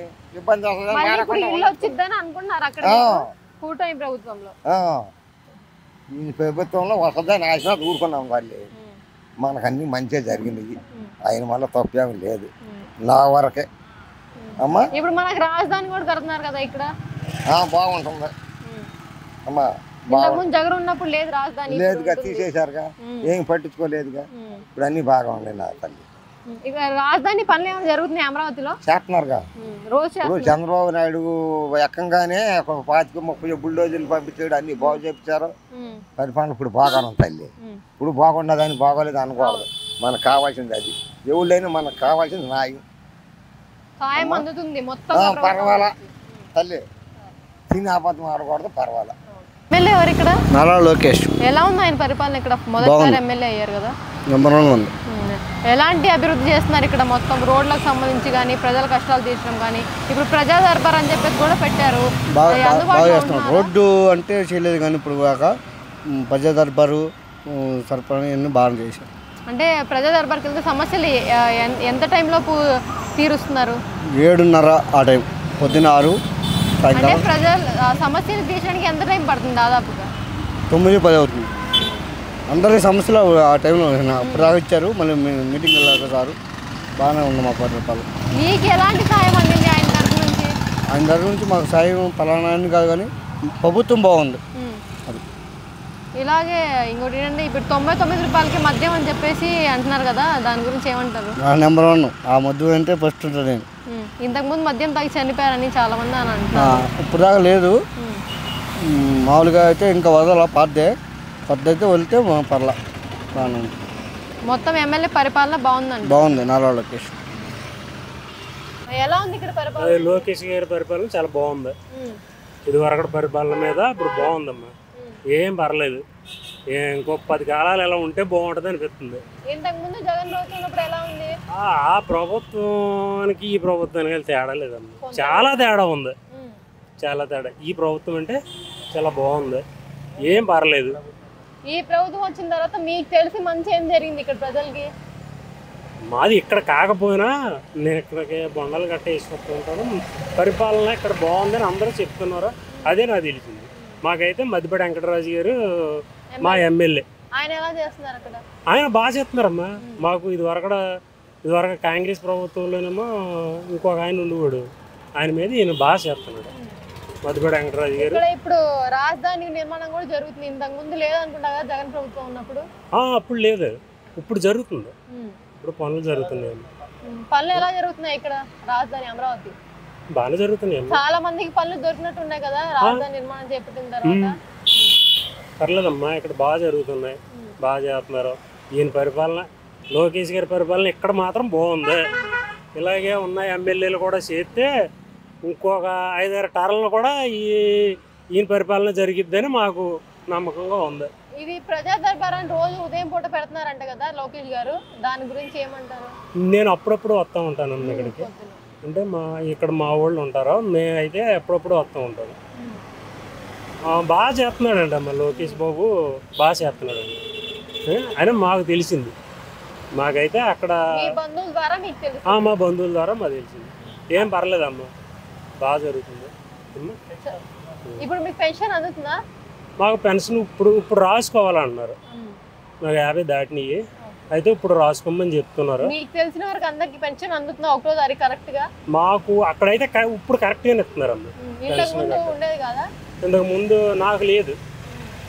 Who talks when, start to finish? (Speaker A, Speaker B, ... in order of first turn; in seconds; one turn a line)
Speaker A: 0.3-1.9
Speaker B: 0.9-4.5
Speaker A: 2.8-3.3
Speaker A: 4.7-5.1
Speaker A: 6.1-8.6
Speaker A: 9.4-12.5
Speaker A: 13.0-13.7
Speaker B: 14.4-16.9
Speaker A: 14.6-14.8
Speaker A: 17.5-18.3
Speaker A: 19.4-20.4
Speaker B: 20.1-22.4
Speaker A: 21.7-26.0
Speaker B: 23.0-23.3
Speaker B: 24.4-24.6
Speaker B: 26.5-28.8
Speaker A: 28.8-29.4
Speaker B: 29.6-30.5
Speaker A: 30.2-35.5
Speaker B: 35.7-36.0
Speaker A: 36.2-42.8
Speaker B: 39.4-39.6
Speaker B: 44.0-46.4
Speaker A: 44.2-44.4
Speaker A: 45.1-45.9
Speaker A: 46.5-46.8
Speaker A: 47.7-49.1
Speaker B: 49.3-50.4
Speaker C: 50.5-51.3
Speaker B: 51.4-53.9
Speaker C: 52.8-53.2
Speaker C: 54.3-54.9
Speaker B: 55.1-63.7
Speaker C: 62.4-65.5
Speaker C: 66.2-69.1
Speaker B: 69.5-72.6
Speaker B: 73.2-73.8
Speaker C: 74.2-76.2
Speaker B: 75.6-75.9
Speaker C: 76.8-77.3
Speaker B: 76.9-80.1
Speaker C: 80.7-81.5
Speaker C: 82.5-86.3
Speaker B: 84.2-84.5
Speaker C: 87.0-88.1
Speaker B: 88.3-90.5
Speaker C: 90.9-93.1
Speaker C: 93.6-94.4
Speaker B: 96.2-101.3
Speaker C: 101.4-103.7
Speaker B: 103.9-106.8
Speaker C: 106.5-107.8
Speaker C: 108.9-110.9
Speaker C: 111.5-112.8
Speaker C: 113.3-113.7
Speaker B: 114.5-116.3
Speaker C: 116.0-117.2
Speaker B: 118.9-120.3
Speaker D: 120.0-121.7
Speaker B: 121.9-122.2
Speaker D: 122.7-124.7
Speaker D: 125.3-126.0
Speaker D: 126.8-129.2
Speaker B: 129.5-131.3
Speaker D: 131.7-136.1
Speaker B: 135.0-135.7
Speaker B: 136.3-136.6
Speaker D: 137.0-138.3
Speaker D: 139.0-139.6
Speaker D: 140.4-140.9
Speaker B: 141.7-144.9
Speaker D: 146.1-147.3
Speaker D: 147.9-155.5
Speaker B: 152.7-153.1
Speaker B: 156.3-156.7
Speaker D: 156.5-157.0
Speaker B: 157.3-158.4
Speaker D: 158.8-159.6
Speaker D: 160.2-160.8
Speaker D: 161.5-163.1
Speaker D: 163.8-164.6
Speaker D: 165.2-166.5
Speaker D: 167.5-167.9
Speaker B: 167.9-172.6
Speaker D: 173.1-173.7
Speaker D: 174.2-174.9
Speaker D: 175.6-176.6
Speaker B: 177.1-179.5
Speaker D: 180.2-180.9
Speaker B: 180.9-184.9
Speaker D: 185.7-187.2
Speaker D: 187.7-189.4
Speaker D: 190.0-191.9
Speaker D: 192.8-194.7
Speaker D: 195.5-197.5
Speaker D: 198.4-201.1
Speaker B: 201.4-206.1
Speaker D: 206.5-207.9
Speaker B: 207.8-208.6
Speaker D: 208.9-212.3
Speaker D: 214.1-215.9
Speaker B: 215.3-215.6
Speaker D: 216.4-217.2
Speaker D: 218.0-219.1
Speaker D: 220.2-220.8
Speaker B: 220.9-222.6
Speaker D: 222.4-223.7
Speaker D: 224.4-224.9
Speaker D: 225.7-226.3
Speaker B: 228.0-229.2
Speaker D: 229.8-231.9
Speaker B: 232.1-232.4
Speaker D: 232.9-233.8
Speaker D: 234.4-235.7
Speaker B: 235.8-238.7
Speaker D: 239.0-242.3
Speaker B: 241.4-242.8
Speaker D: 243.3-244.5
Speaker B: 244.9-245.1